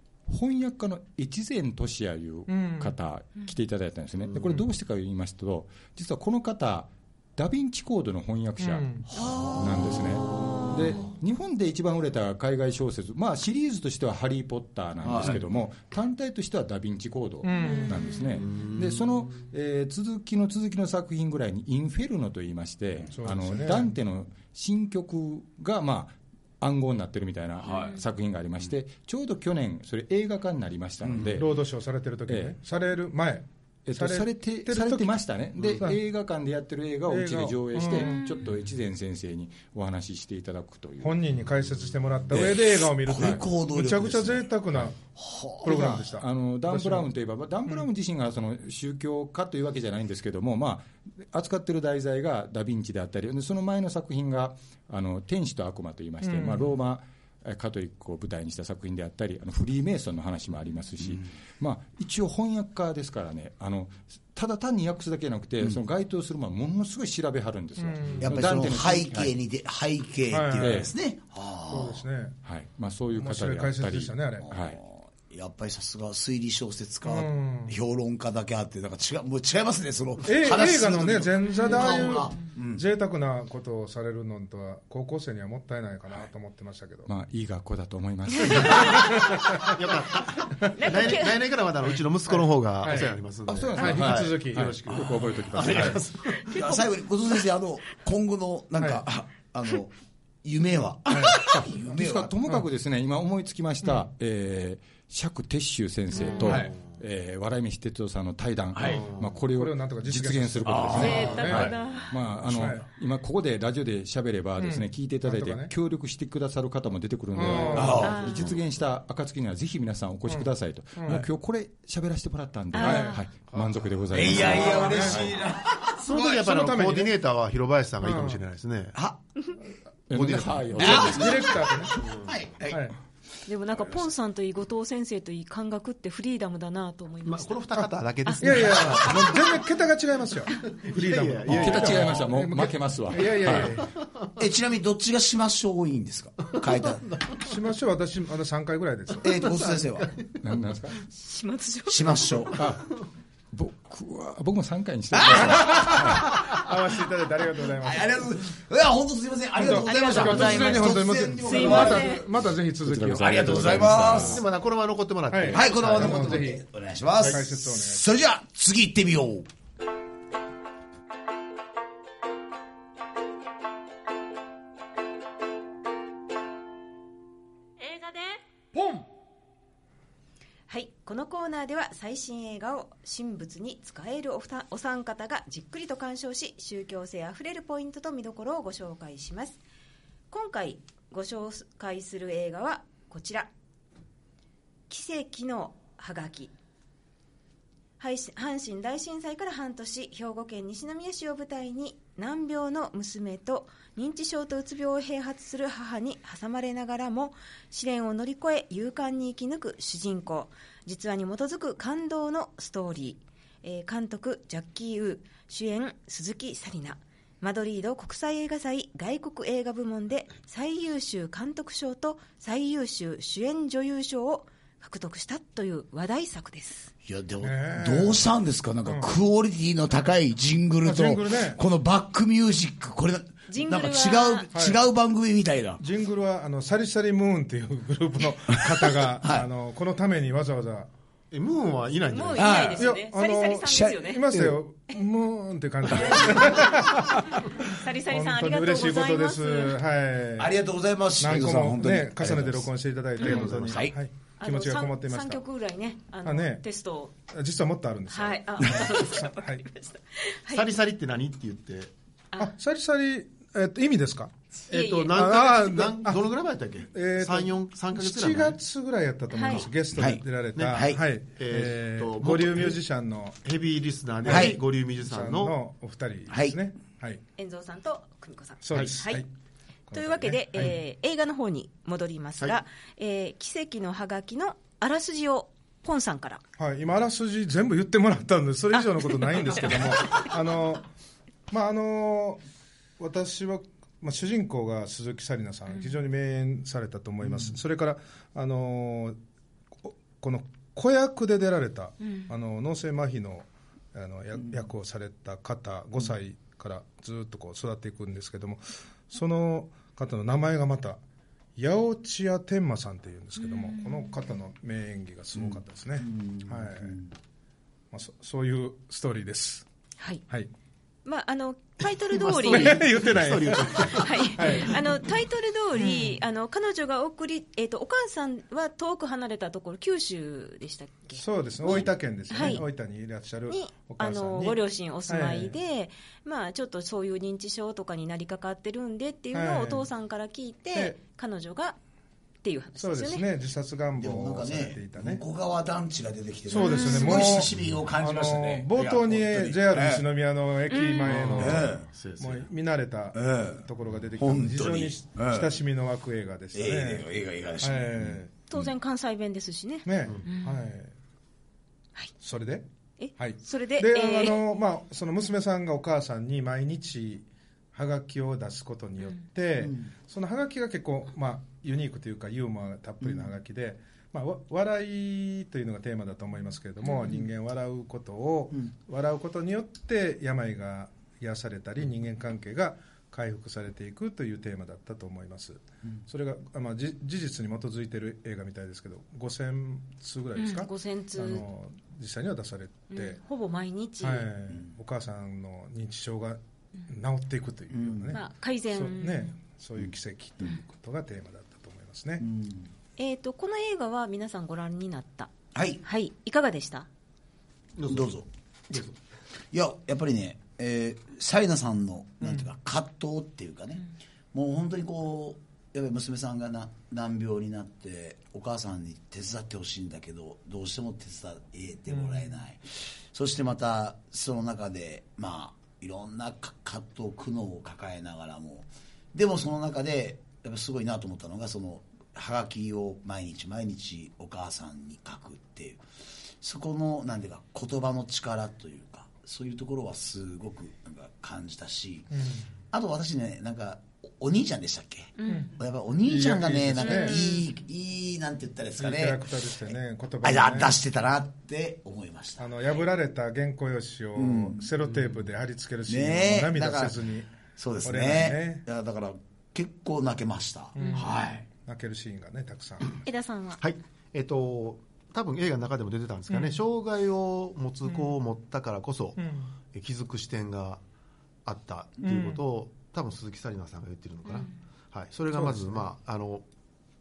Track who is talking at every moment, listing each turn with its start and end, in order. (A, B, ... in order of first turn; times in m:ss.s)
0:00.3-0:31.5 A
0:02.5-0:02.9 B
0:08.6-0:09.1 B
0:09.1-0:10.0 C
0:15.0-0:15.4 C
0:17.4-0:18.0 B
0:17.6-0:18.2 D
0:23.2-0:23.9 B
0:27.6-0:28.0 C
0:27.7-0:28.0 D
0:31.0-0:31.4 C
0:31.3-0:35.2 B
0:32.3-0:32.6 A
0:33.9-0:41.2 A
0:37.1-0:38.3 B
0:38.0-0:38.3 D
0:41.0-0:45.0 B
0:42.3-0:42.6 A
0:42.3-0:44.5 C
0:43.2-0:43.4 A
0:45.1-0:46.0 C
0:45.6-0:47.1 B
0:45.6-1:09.3 A
0:56.2-0:56.7 B
1:07.8-1:08.3 B
1:08.2-1:12.0 C
1:10.3-1:10.9 B
1:10.6-1:10.9 A
1:11.7-1:12.4 B
1:12.4-1:14.8 A
1:13.2-1:14.5 B
1:14.4-1:22.8 C
1:17.0-1:17.8 B
1:20.2-1:27.1 B
1:27.1-1:29.0 A
1:28.3-1:28.9 D
1:28.5-1:29.8 B
1:29.5-1:36.7 E
1:30.7-1:31.6 D
1:32.3-1:33.2 B
1:33.5-1:36.0 A
1:33.7-1:34.8 B
1:34.9-1:39.9 C
1:38.8-1:39.0 B
1:40.4-1:42.3 C
1:41.1-1:41.5 B
1:41.9-2:05.4 A
1:46.1-1:46.6 D
1:46.4-1:46.7 C
1:48.7-1:49.0 C
1:48.9-1:49.4 E
1:49.4-1:51.7 B
1:50.6-1:51.8 C
1:51.0-1:52.2 D
1:52.5-1:52.8 B
1:54.6-1:55.7 B
1:57.4-1:58.1 B
1:57.7-1:58.4 C
1:57.9-1:58.5 D
2:00.3-2:01.2 B
2:02.7-2:03.2 D
2:02.8-2:03.2 B
2:03.5-2:04.8 E
2:04.1-2:06.3 C
2:04.4-2:05.3 B
2:06.0-2:09.0 E
2:06.1-2:07.1 B
2:08.0-2:08.4 B
2:08.9-2:09.2 C
2:10.1-2:11.5 A
2:10.1-2:11.4 E
2:10.8-2:12.9 C
2:10.8-2:12.0 B
2:12.0-2:12.3 E
2:12.7-2:13.0 B
2:13.5-2:17.6 D
2:17.2-2:19.4 E
2:18.2-2:18.7 D
2:18.4-2:23.9 B
2:20.7-2:22.3 E
2:21.5-2:23.8 A
2:23.5-2:24.3 E
2:24.4-2:27.1 C
2:27.0-2:27.4 E
2:27.4-2:29.5 B
2:29.2-2:30.1 C
2:30.0-2:30.2 E
2:30.4-2:31.0 A
2:31.2-2:32.3 D
2:31.9-2:32.7 C
2:32.6-2:32.9 A
2:33.5-2:36.3 A
2:35.1-2:36.4 C
2:35.4-2:38.2 B
2:37.8-2:42.2 C
2:39.6-2:43.9 B
2:39.8-2:42.2 D
2:42.8-2:44.4 A
2:43.2-2:44.4 C
2:43.9-2:46.5 E
2:45.3-2:46.6 B
2:45.5-2:49.5 C
2:47.2-2:48.1 B
2:57.9-2:58.2 D
3:00.7-3:09.6 D
3:10.3-3:13.5 D
3:14.9-3:16.5 D
3:18.0-3:46.9 D
3:47.0-3:55.8 C
3:47.4-3:48.2 B
3:48.9-3:49.1 B
3:50.8-3:51.6 B
3:53.5-3:54.5 D
3:54.5-3:54.8 B
3:55.8-4:00.9 B
3:58.5-3:59.5 C
4:01.3-4:02.7 E
4:02.1-4:04.2 D
4:02.4-4:02.9 C
4:02.8-4:10.5 B
4:03.7-4:04.6 C
4:05.9-4:06.8 D
4:06.0-4:06.2 C
4:07.6-4:09.8 D
4:10.4-4:14.0 C
4:11.2-4:15.4 B
4:13.2-4:13.5 D
4:14.4-4:17.1 D
4:16.2-4:16.6 B
4:17.3-4:19.6 B
4:18.1-4:20.7 D
4:20.5-4:21.9 E
4:22.4-4:24.3 B
4:24.7-4:25.3 D
4:24.7-4:28.6 E
4:25.1-4:26.2 B
4:26.9-4:33.4 B
4:29.3-4:29.7 D
4:30.0-4:31.0 C
4:31.4-4:32.8 E
4:33.4-4:35.6 E
4:34.2-4:37.2 B
4:34.3-4:34.6 C
4:36.3-4:36.6 C
4:37.4-4:39.2 D
4:38.6-4:39.3 B
4:39.9-4:40.8 B
4:39.9-4:46.4 D
4:46.6-4:50.9 B
4:48.8-4:50.3 D
4:51.5-4:52.4 B
4:53.0-4:59.2 B
4:59.8-5:11.0 B
5:02.0-5:02.3 D
5:11.6-5:17.0 B
5:13.5-5:14.0 D
5:15.4-5:17.1 C
5:17.9-5:19.7 B
5:21.0-5:22.8 D
5:22.4-5:24.9 B
5:22.4-5:24.3 E
5:23.7-5:32.6 D
5:25.8-5:26.2 B
5:31.2-5:35.6 B
5:33.5-5:41.8 D
5:39.3-5:39.9 B
5:42.4-5:43.3 D
5:42.8-5:45.2 B
5:44.0-5:50.1 C
5:46.5-5:57.1 B
5:46.5-5:47.4 D
5:50.7-5:51.4 D
5:51.0-5:51.9 C
5:51.2-5:52.5 E
5:53.1-5:53.6 C
5:54.2-5:55.6 C
5:56.5-5:58.7 C
5:57.6-5:58.3 B
5:58.5-6:00.6 D
5:59.8-6:00.9 B
6:02.2-6:02.7 B
6:03.0-6:04.4 D
6:03.2-6:33.2 B
6:09.6-6:09.9 C
6:30.4-6:31.4 D
6:32.9-6:34.3 D
6:34.0-6:42.2 B
6:37.7-6:38.1 C
6:38.1-6:39.3 D
6:42.2-6:42.7 C
6:43.0-6:45.3 D
6:45.6-6:45.8 C
6:45.8-6:46.9 D
6:47.8-6:48.1 E
6:47.9-6:48.3 C
6:49.5-7:15.8 C
7:01.9-7:02.3 B
7:16.4-7:22.1 C
7:22.1-7:22.4 B
7:22.7-7:32.5 C
7:25.2-7:25.6 D
7:25.3-7:27.3 B
7:26.8-7:27.4 D
7:28.8-7:30.8 B
7:32.4-7:37.3 B
7:34.2-7:34.9 C
7:35.9-7:37.0 C
7:37.6-7:41.5 C
7:37.8-7:38.6 B
7:40.8-7:43.0 B
7:40.8-7:41.1 D
7:43.0-7:43.6 D
7:43.6-7:49.2 E
7:46.3-7:46.6 D
7:49.2-7:49.5 B
7:49.7-7:50.8 E
7:51.4-7:56.4 E
7:52.0-7:52.4 B
7:55.3-7:55.8 B